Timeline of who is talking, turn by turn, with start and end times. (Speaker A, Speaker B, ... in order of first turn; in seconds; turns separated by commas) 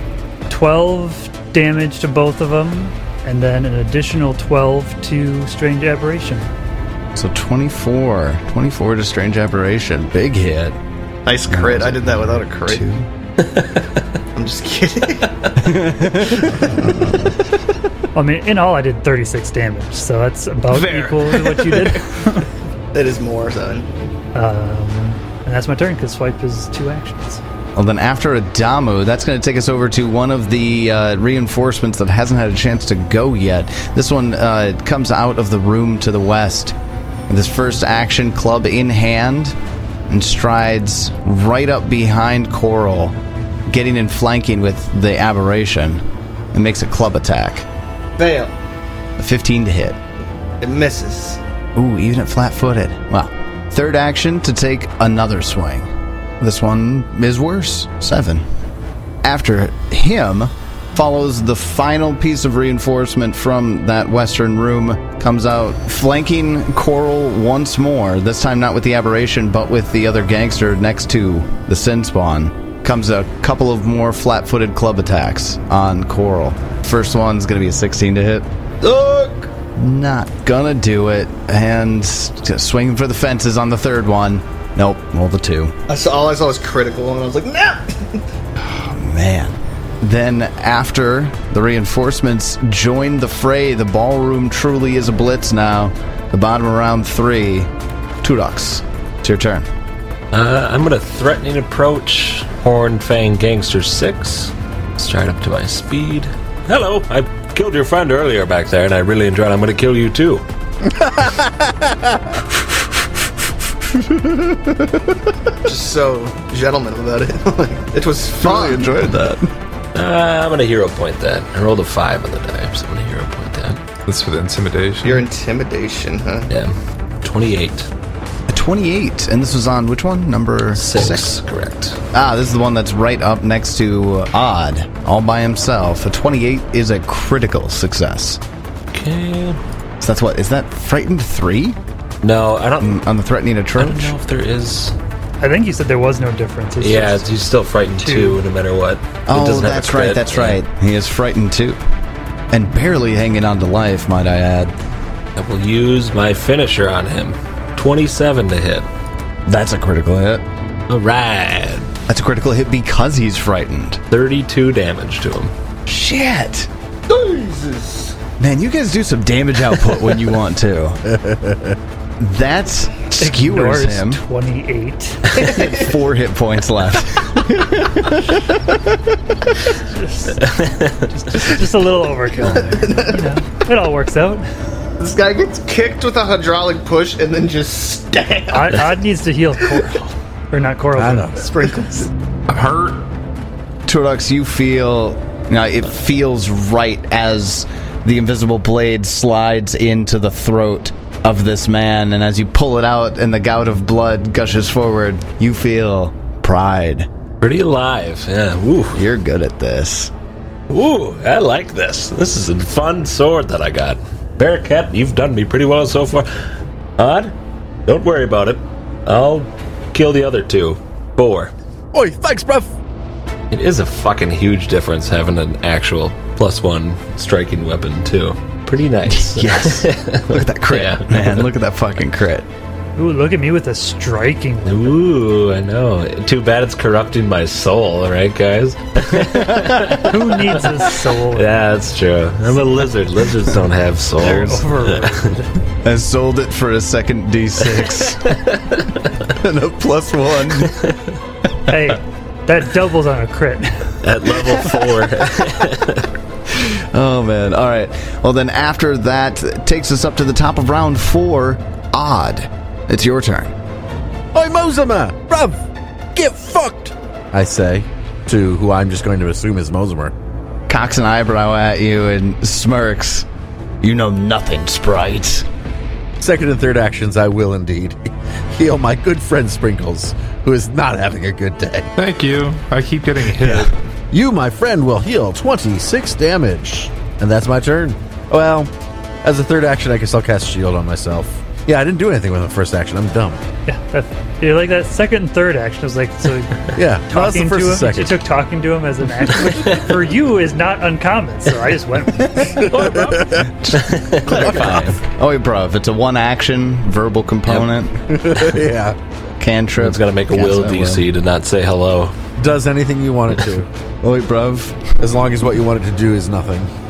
Speaker A: 0.5-6.5, Speaker B: 7.1-10.8, Speaker C: 11.2-12.8, Speaker B: 11.5-13.1, Speaker C: 14.3-17.3, Speaker B: 15.6-17.0, Speaker A: 18.1-22.5, Speaker C: 20.7-22.0, Speaker C: 22.9-23.9, Speaker A: 24.3-27.4, Speaker B: 27.8-36.8, Speaker B: 37.3-39.6, Speaker B: 40.1-43.1, Speaker B: 43.7-47.6, Speaker C: 48.2-48.5, Speaker B: 49.2-50.0, Speaker C: 50.6-51.4, Speaker B: 51.7-58.4, Speaker B: 59.2-78.5, Speaker C: 78.8-79.5, Speaker B: 79.8-85.8, Speaker C: 85.9-88.2, Speaker B: 88.7-97.7, Speaker B: 98.2-99.7, Speaker D: 100.3-110.4, Speaker C: 115.6-119.1, Speaker B: 118.4-119.5, Speaker D: 119.9-123.8, Speaker E: 124.0-125.2, Speaker C: 125.0-126.5, Speaker D: 126.5-127.9, Speaker B: 128.5-131.3, Speaker D: 130.8-132.0, Speaker B: 132.1-138.4, Speaker D: 138.9-139.6, Speaker B: 140.0-141.8, Speaker D: 142.2-143.0, Speaker B: 142.8-144.1, Speaker D: 143.8-144.9, Speaker A: 145.4-147.3, Speaker D: 146.8-150.6, Speaker A: 148.0-148.4, Speaker B: 149.3-151.8, Speaker B: 152.5-154.7, Speaker D: 155.3-158.8, Speaker B: 159.5-160.4, Speaker D: 160.9-161.9, Speaker B: 162.1-164.0, Speaker D: 164.1-165.5, Speaker B: 165.9-166.7, Speaker C: 167.1-168.1, Speaker B: 168.4-171.0, Speaker F: 171.1-171.7, Speaker B: 172.2-174.2, Speaker A: 173.2-175.3, Speaker C: 175.3-176.0, Speaker B: 175.4-179.0, Speaker A: 179.7-184.4, Speaker D: 180.4-180.9, Speaker B: 182.3-183.0, Speaker C: 182.6-183.2, Speaker C: 185.0-189.0, Speaker A: 188.5-191.8, Speaker F: 190.9-191.7, Speaker E: 192.5-193.1, Speaker B: 193.8-207.1, Speaker D: 207.4-209.0, Speaker B: 208.9-210.1, Speaker D: 210.7-216.3, Speaker D: 217.0-217.3, Speaker D: 217.9-221.5, Speaker F: 221.9-222.7, Speaker D: 223.5-231.5, Speaker B: 229.1-232.5, Speaker A: 233.0-235.0, Speaker D: 234.7-245.3, Speaker B: 239.1-240.0, Speaker A: 240.0-241.5, Speaker A: 244.2-245.5, Speaker B: 245.8-248.4, Speaker D: 248.2-249.0, Speaker B: 249.3-250.8, Speaker A: 251.7-253.9, Speaker D: 254.0-256.1, Speaker B: 256.5-263.5, Speaker F: 264.3-265.6, Speaker F: 266.1-270.1, Speaker B: 270.7-273.3, Speaker B: 273.8-275.4, Speaker F: 276.2-278.0, Speaker F: 278.5-281.9, Speaker E: 281.9-283.7, Speaker F: 283.4-288.7, Speaker F: 289.2-293.4, Speaker A: 293.7-303.2, Speaker F: 296.7-298.2, Speaker F: 302.7-303.5, Speaker B: 303.4-308.0, Speaker D: 303.7-304.9, Speaker F: 304.2-304.9, Speaker F: 308.1-308.9, Speaker B: 309.4-311.1, Speaker D: 309.8-312.1, Speaker F: 312.4-313.7, Speaker B: 314.0-314.9, Speaker F: 315.0-316.7